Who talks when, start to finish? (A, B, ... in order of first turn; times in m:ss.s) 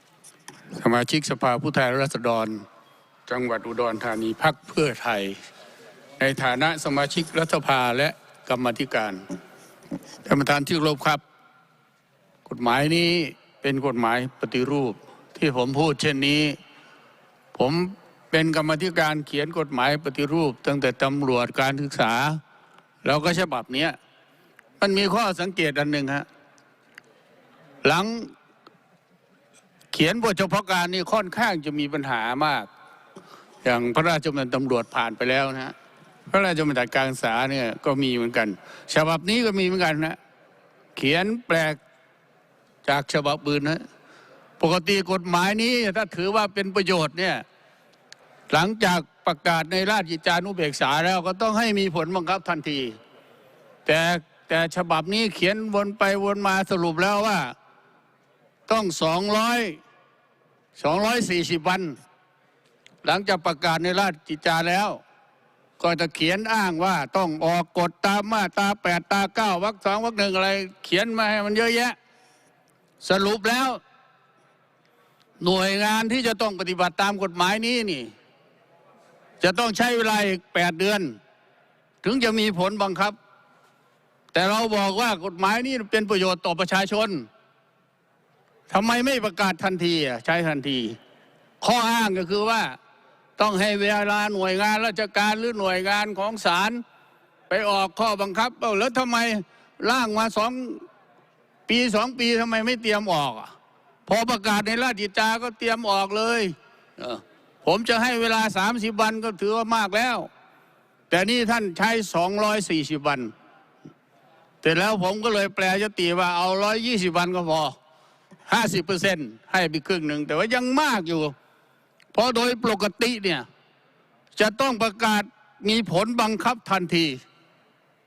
0:00.7-0:02.6 A
0:03.3-0:05.4 A
0:06.2-0:09.2 A
0:10.2-0:11.2 A
0:12.4-0:16.6 A
0:17.5-0:22.4 A
0:23.0-0:24.0 A
0:24.8-0:26.2 A
0:27.8-0:28.3 A
0:29.9-0:32.7 A
0:33.6-0:35.8 A
0:36.3-0:40.2 A
0:41.0-0:41.8 A
0:42.8-0:43.8 A
0:44.6-0:47.4 A
0:48.5-0:53.0 A
0:53.8-0:57.5 A
0:58.7-0:59.8 A
1:00.8-1:02.0 A
1:03.0-1:05.0 A
1:05.8-1:12.0 A
1:13.0-1:13.8 A
1:15.4-1:18.1 A
1:19.4-1:21.2 A
1:22.0-1:23.2 A
1:24.3-1:27.3 A
1:28.7-1:31.0 A
1:31.6-1:32.8 A
1:33.4-1:36.8 A
1:37.5-1:40.8 A
1:41.7-1:43.5 A
1:44.0-1:50.3 A
1:51.1-1:53.3 A
1:54.6-1:57.7 A
1:58.5-2:01.3 A
2:02.1-2:03.4 A
2:04.3-2:07.2 A